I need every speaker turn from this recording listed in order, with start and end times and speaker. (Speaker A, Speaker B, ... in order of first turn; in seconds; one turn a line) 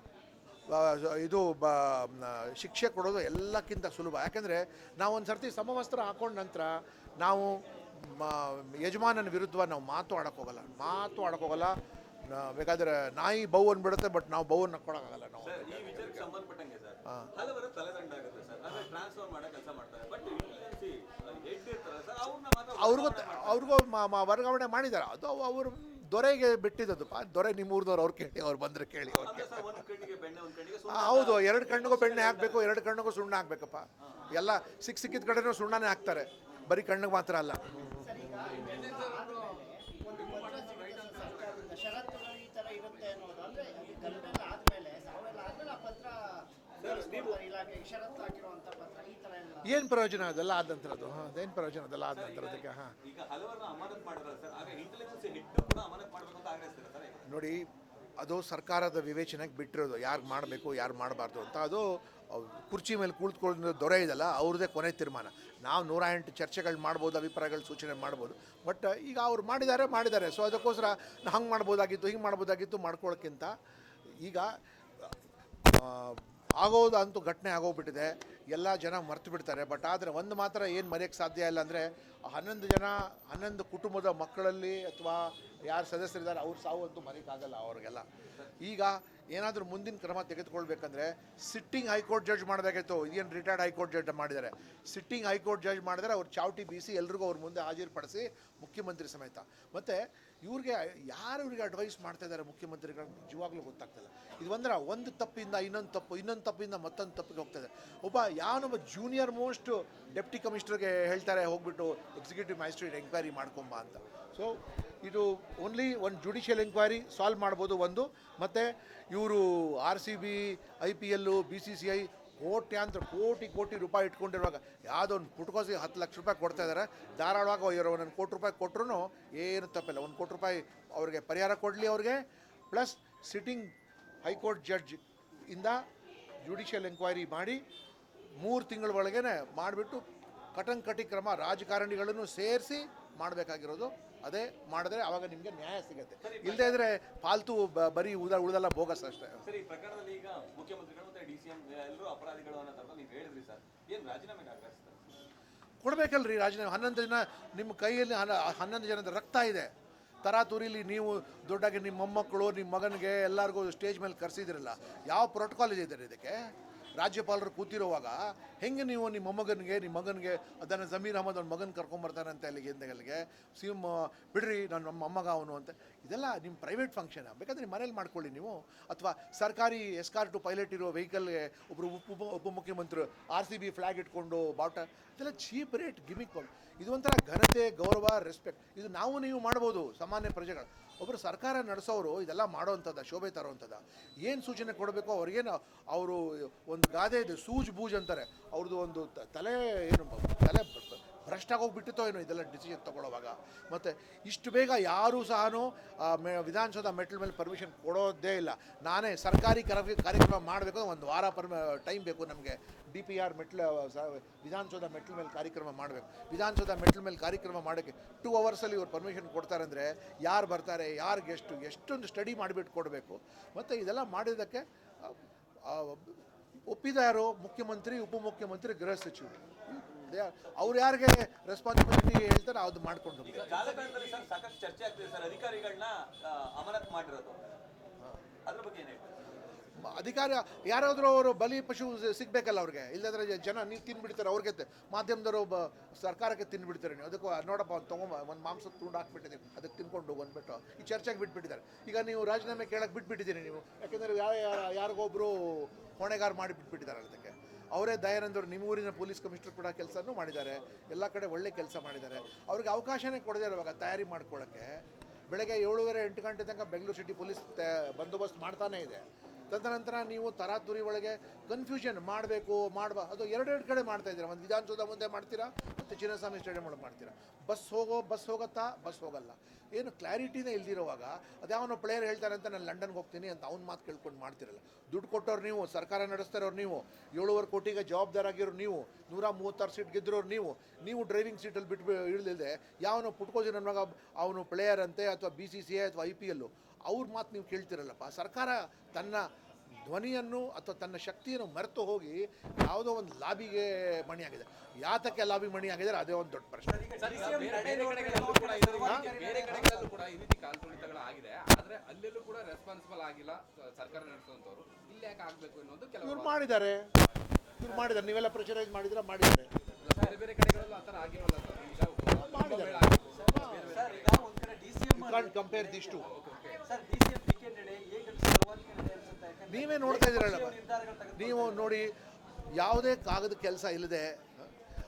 Speaker A: 0.7-11.8
Speaker A: 12.3-16.3
Speaker B: 15.4-23.8
Speaker A: 22.8-29.9
Speaker B: 29.1-32.8
Speaker A: 30.9-38.0
Speaker C: 38.0-49.8
Speaker D: 38.6-39.5
Speaker D: 40.1-41.6
Speaker B: 46.8-47.4
Speaker A: 49.6-52.9
Speaker B: 52.1-57.2
Speaker A: 57.3-57.7
Speaker A: 58.2-73.5
Speaker A: 74.2-74.5
Speaker A: 75.7-88.1
Speaker A: 88.6-133.7
Speaker A: 134.2-135.8
Speaker A: 136.4-137.6
Speaker A: 138.4-149.4
Speaker B: 146.2-146.8
Speaker B: 149.4-155.0
Speaker A: 155.8-159.7
Speaker A: 160.2-166.4
Speaker A: 167.0-233.6
Speaker B: 233.2-237.4
Speaker B: 238.5-239.2
Speaker A: 239.8-299.3
Speaker A: 299.9-306.9
Speaker E: 306.7-309.9
Speaker D: 307.0-316.5
Speaker A: 308.8-309.1
Speaker A: 316.0-316.9
Speaker A: 317.6-319.5
Speaker D: 319.8-324.2
Speaker A: 322.1-323.7
Speaker E: 323.7-326.1
Speaker A: 324.9-326.1
Speaker D: 325.9-326.6
Speaker E: 326.7-331.8
Speaker A: 329.5-330.6
Speaker A: 331.1-331.9
Speaker A: 332.6-334.5